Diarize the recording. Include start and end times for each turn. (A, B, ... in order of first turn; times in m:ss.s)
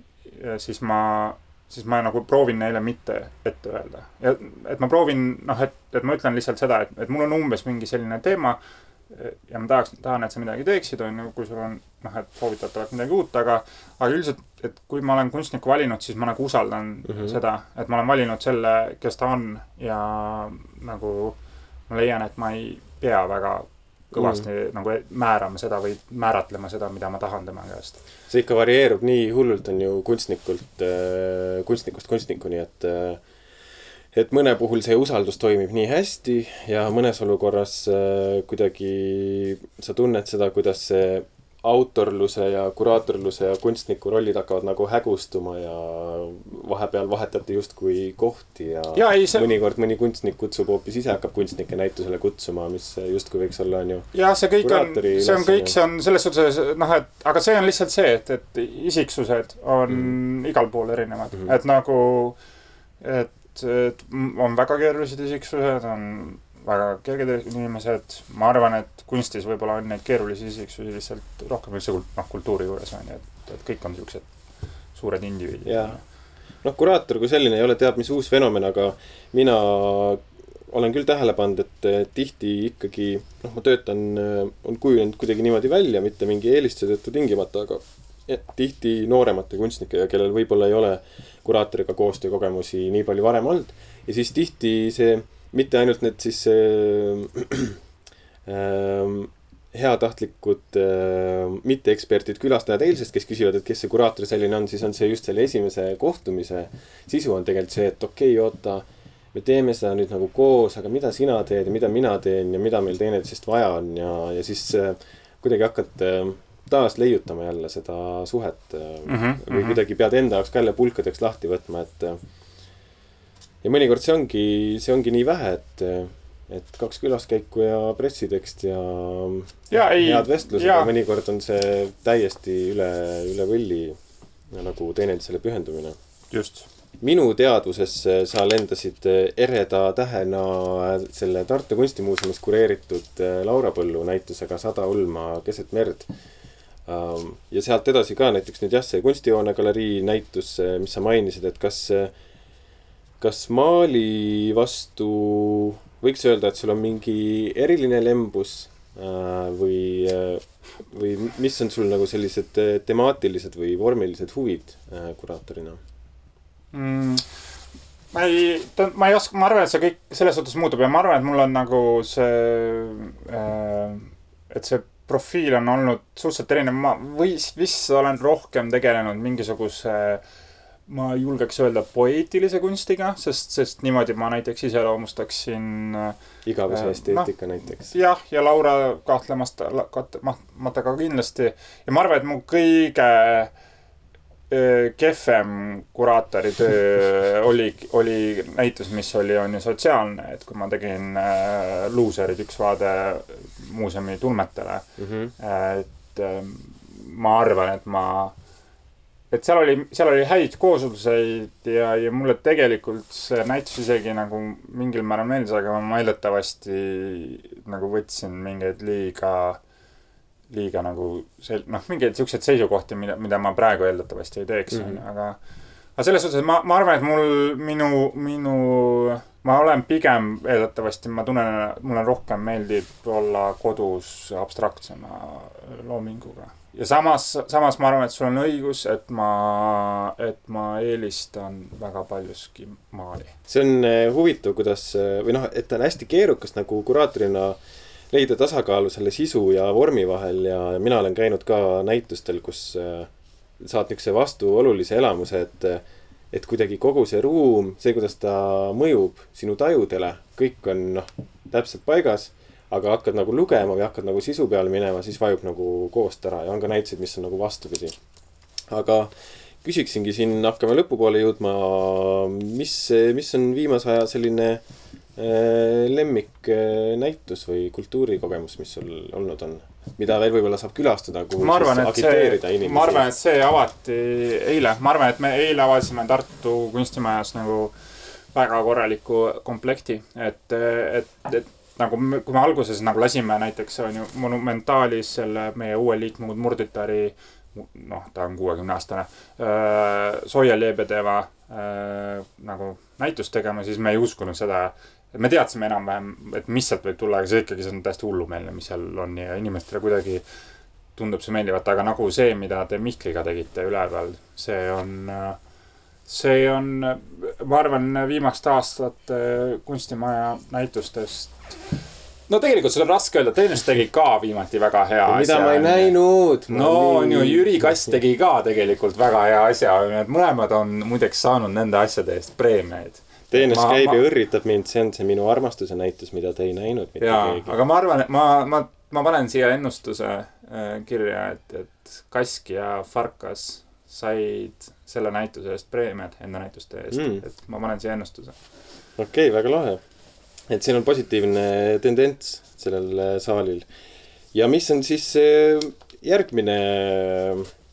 0:00.3-0:21.4 A
0:21.9-0:28.0 A
0:28.3-0:33.2 B
0:34.1-0:55.7 B
0:48.9-0:49.5 A
0:54.1-1:02.4 A
1:03.0-1:14.2 A
1:14.9-1:16.0 A
1:15.6-1:16.0 B
1:16.6-1:37.8 B
1:38.5-2:02.2 B
1:59.1-1:59.8 A
2:03.6-2:14.0 B
2:09.7-2:10.9 A
2:14.5-2:16.0 B
2:16.3-2:16.7 A
2:17.0-2:26.1 B
2:26.9-2:32.1 B
2:33.2-2:45.8 B
2:46.7-2:47.2 A
2:48.1-3:00.2 A
3:00.9-3:06.2 A
3:06.4-3:07.9 B
3:06.7-3:13.5 A
3:14.5-3:24.8 A
3:25.0-3:25.3 B
3:25.4-3:28.3 A
3:29.3-3:39.6 A
3:40.5-3:45.4 A
3:46.0-4:03.3 A
4:03.5-4:07.6 B
4:08.1-4:28.0 B
4:28.7-4:29.1 B
4:29.6-4:34.6 B
4:35.2-4:43.1 B
4:41.4-4:47.7 A
4:48.3-5:10.2 A
5:11.0-5:15.4 A
5:16.1-5:21.7 A
5:22.3-5:26.0 A
5:25.1-5:27.5 B
5:26.5-5:34.0 A
5:33.3-5:37.5 B
5:37.0-5:48.3 A
5:46.9-5:47.2 B
5:49.0-5:49.8 B
5:50.5-5:53.6 B
5:54.3-5:57.5 B